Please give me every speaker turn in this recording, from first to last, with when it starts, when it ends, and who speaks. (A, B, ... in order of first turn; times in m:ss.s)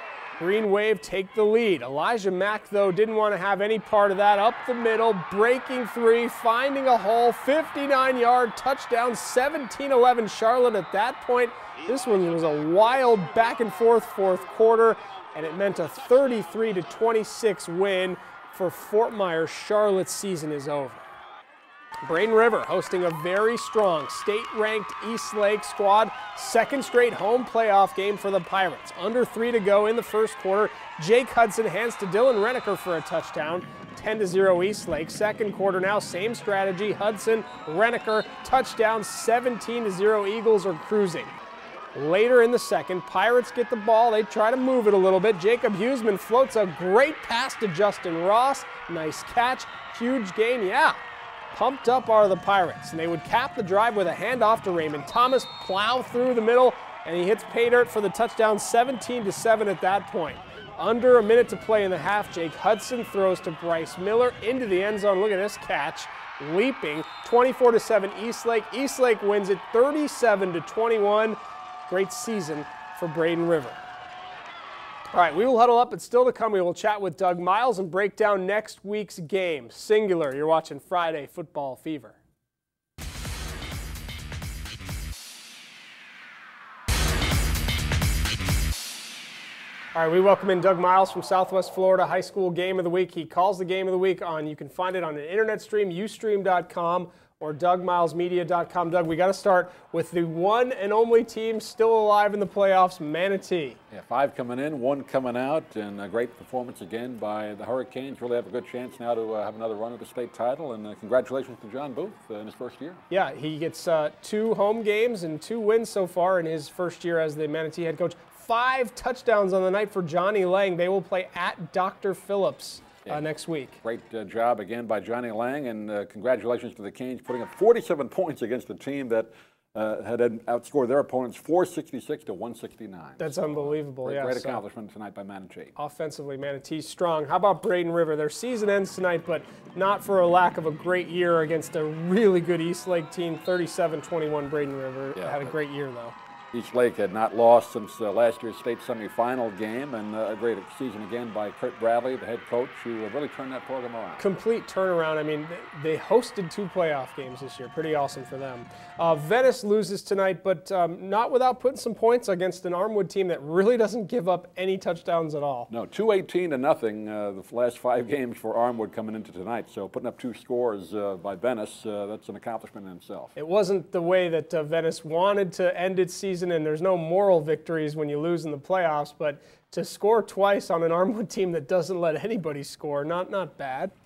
0:00.4-0:21.0 A
0:22.0-0:41.3 A
0:41.9-0:51.0 A
0:51.5-1:13.8 A
1:15.1-1:22.2 A
1:29.9-1:43.8 A
1:43.9-1:53.0 B
1:53.1-2:03.8 A
2:03.8-2:15.7 B
2:13.2-2:14.6 A
2:15.7-2:26.1 A
2:25.2-2:25.6 B
2:26.5-2:34.2 B
2:34.2-2:45.7 A
2:45.7-2:53.3 B
2:53.3-3:03.9 A